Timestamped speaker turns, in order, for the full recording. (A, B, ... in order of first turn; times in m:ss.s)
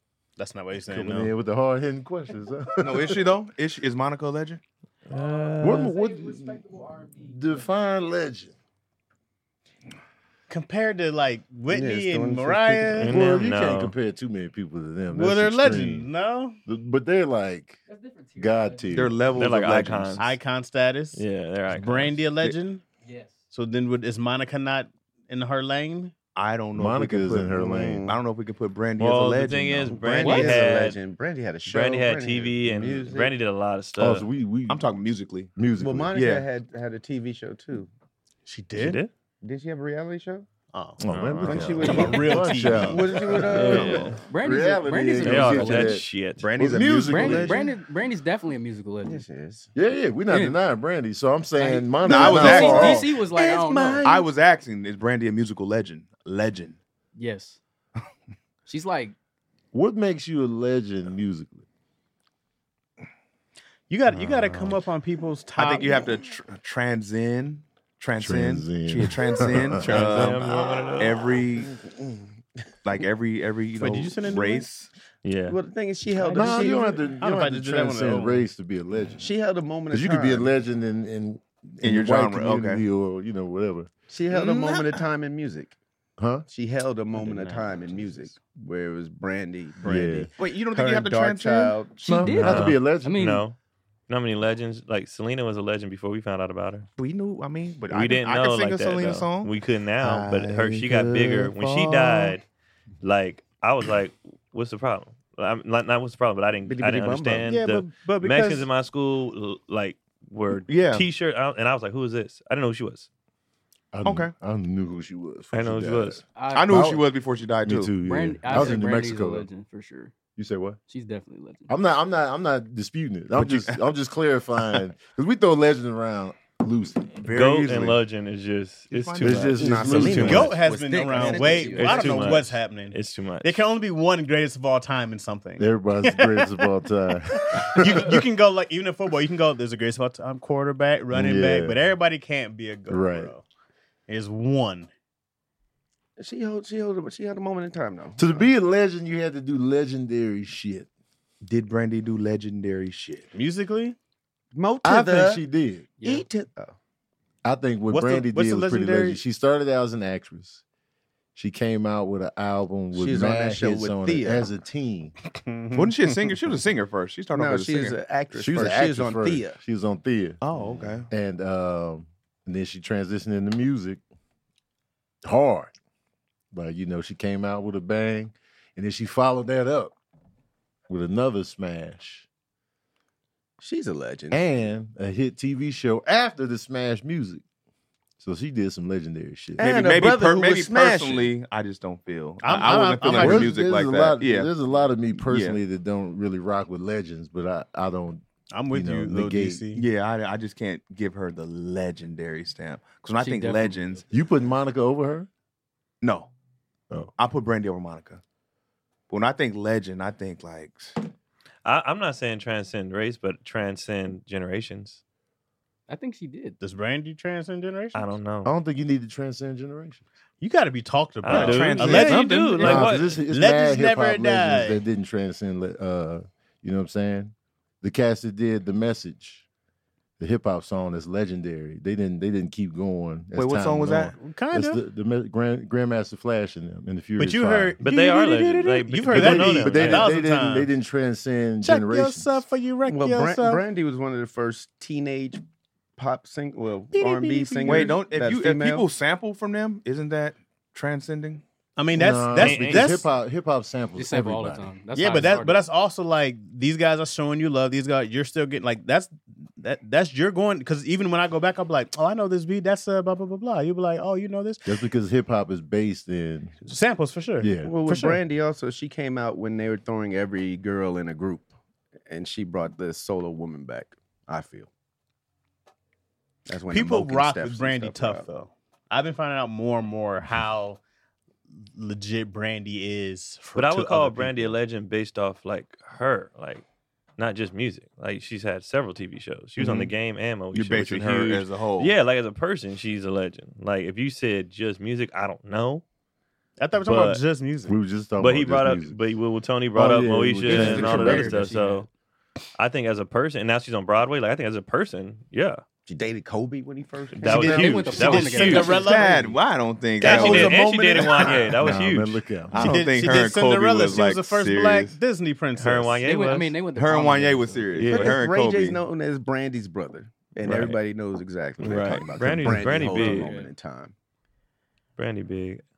0:00.4-0:01.3 A
0:00.9-0:03.2 B
0:02.8-0:04.6 C
0:05.1-0:05.9 D
0:05.6-0:08.5 B
0:06.0-0:07.1 E
0:10.5-0:13.1 A
0:11.7-0:13.1 F
0:13.0-0:13.9 D
0:13.1-0:16.1 B
0:15.1-0:16.6 A
0:16.6-0:17.8 B
0:17.9-0:18.9 E
0:18.4-0:19.2 B
0:18.9-0:20.3 C
0:19.4-0:20.2 D
0:20.2-0:22.8 A
0:21.1-0:22.2 D
0:23.0-0:23.3 E
0:23.5-0:26.1 A
0:26.3-0:30.3 C
0:26.7-0:28.1 B
0:27.5-0:28.2 F
0:29.0-0:31.0 D
0:29.9-0:33.3 F
0:30.2-0:30.6 E
0:31.6-0:34.2 D
0:34.0-0:34.8 B
0:34.7-0:35.5 C
0:35.5-0:36.1 B
0:35.8-0:37.9 F
0:36.1-0:36.5 C
0:38.4-0:39.0 A
0:38.8-0:39.1 D
0:39.4-0:40.5 F
0:40.7-0:41.0 A
0:41.0-0:46.0 B
0:41.1-0:42.0 D
0:41.4-0:44.1 F
0:41.7-0:43.1 A
0:43.3-0:44.2 D
0:44.2-0:46.0 E
0:45.2-0:46.5 D
0:46.4-0:47.6 C
0:46.6-0:47.6 B
0:46.8-0:47.6 F
0:47.0-0:49.2 E
0:49.0-0:49.7 F
0:49.7-0:53.1 B
0:50.3-0:50.6 E
0:51.6-0:54.2 E
0:52.0-0:53.1 C
0:53.3-0:54.2 F
0:54.0-0:56.8 C
0:57.2-0:57.6 E
0:58.6-0:59.1 E
0:59.7-1:01.6 B
1:03.9-1:06.0 A
1:04.1-1:04.8 D
1:05.5-1:11.7 C
1:08.2-1:10.9 B
1:09.8-1:10.3 A
1:09.8-1:11.4 D
1:12.8-1:14.9 C
1:13.8-1:14.7 A
1:15.2-1:15.6 D
1:15.5-1:17.1 F
1:16.2-1:18.4 A
1:16.3-1:19.3 B
1:19.2-1:20.5 F
1:19.9-1:23.9 B
1:21.8-1:22.8 C
1:24.1-1:25.7 F
1:24.3-1:25.0 C
1:26.2-1:26.4 B
1:26.5-1:32.0 F
1:27.1-1:28.4 A
1:29.8-1:30.3 B
1:30.4-1:32.7 C
1:32.0-1:33.2 B
1:32.1-1:33.4 E
1:32.4-1:33.6 D
1:34.1-1:36.9 D
1:37.0-1:42.4 C
1:37.9-1:42.4 D
1:43.0-1:53.1 D
1:46.7-1:47.5 F
1:47.5-1:48.7 A
1:50.7-1:51.0 C
1:53.9-1:57.0 B
1:54.0-1:54.3 C
1:55.5-1:56.2 D
1:56.4-1:56.8 E
1:56.5-1:57.9 C
1:57.6-1:59.4 B
1:58.0-2:00.1 E
2:00.4-2:00.8 B
2:00.9-2:01.7 E
2:01.7-2:07.1 B
2:03.4-2:03.8 C
2:07.1-2:08.0 C
2:07.3-2:10.5 D
2:08.9-2:09.7 C
2:09.2-2:10.5 B
2:09.6-2:12.4 F
2:10.0-2:16.7 A
2:11.7-2:13.6 D
2:15.6-2:18.2 B
2:17.3-2:23.4 A
2:21.1-2:21.8 B
2:22.9-2:23.3 B
2:24.1-2:24.9 A
2:26.2-2:28.5 F
2:28.2-2:30.9 B
2:31.4-2:33.3 C
2:33.3-2:34.0 A
2:34.5-2:35.4 F
2:34.8-2:35.9 B
2:36.0-2:36.2 E
2:36.0-2:36.8 F
2:37.4-2:40.6 B
2:37.9-2:39.2 A
2:41.3-2:45.1 B
2:42.9-2:44.5 F
2:45.4-2:46.0 A
2:45.7-2:48.0 C
2:47.3-2:49.6 F
2:48.3-2:50.4 B
2:50.4-2:51.1 C
2:51.1-2:54.0 B
2:55.2-2:55.7 B
2:56.5-2:59.9 B
3:00.9-3:02.3 B
3:03.6-3:04.5 F
3:04.3-3:07.4 B
3:08.2-3:09.7 B
3:09.6-3:11.3 F
3:09.6-3:14.5 C
3:12.4-3:13.5 A
3:13.1-3:19.6 B
3:15.2-3:15.6 C
3:18.5-3:19.8 A
3:19.7-3:24.0 C
3:23.2-3:24.0 E
3:24.1-3:25.3 B
3:26.0-3:26.3 C
3:27.2-3:28.2 C
3:29.1-3:31.0 C
3:31.6-3:35.0 D
3:35.9-3:36.6 E
3:36.6-3:38.0 A
3:37.9-3:38.5 D
3:38.4-3:40.0 B
3:40.4-3:44.8 A
3:41.2-3:43.2 D
3:41.3-3:42.8 C
3:42.6-3:49.4 B
3:50.2-3:57.8 B
3:53.3-3:54.2 C
3:54.1-3:54.8 A
3:57.2-4:00.7 A
3:57.8-4:00.2 D
3:59.1-4:02.4 B
4:01.6-4:03.6 A
4:02.8-4:05.4 F
4:06.0-4:08.9 F
4:06.9-4:08.0 A
4:07.6-4:11.4 C
4:11.8-4:13.0 A
4:11.9-4:14.7 B
4:12.4-4:13.0 D
4:14.0-4:15.6 E
4:14.9-4:24.8 A
4:24.6-4:26.5 B
4:26.6-4:28.1 A
4:27.4-4:28.2 B
4:27.6-4:31.5 F
4:32.1-4:34.7 F
4:36.5-4:38.3 F
4:36.7-4:40.8 A
4:41.8-4:44.5 A
4:43.5-4:46.6 D
4:47.2-4:55.8 D
4:50.5-4:51.9 C
4:56.6-4:57.7 A
4:56.8-4:57.2 D
4:56.8-4:59.0 B
4:58.2-5:01.9 D
4:59.7-5:01.5 B
5:00.5-5:01.8 E
5:00.5-5:01.7 F
5:02.6-5:05.6 D
5:05.9-5:09.3 F
5:07.1-5:08.8 D
5:07.2-5:09.0 E
5:07.3-5:09.3 A
5:08.5-5:11.5 C
5:10.0-5:11.8 F
5:10.0-5:12.2 D
5:11.6-5:12.8 B
5:12.5-5:15.0 C
5:12.5-5:16.0 A
5:15.6-5:16.6 D
5:16.0-5:17.7 E
5:16.7-5:18.8 C
5:17.8-5:18.1 D
5:17.9-5:23.9 F
5:20.4-5:20.8 D
5:20.4-5:20.7 B
5:21.6-5:23.3 D
5:22.8-5:23.5 E
5:25.0-5:25.6 D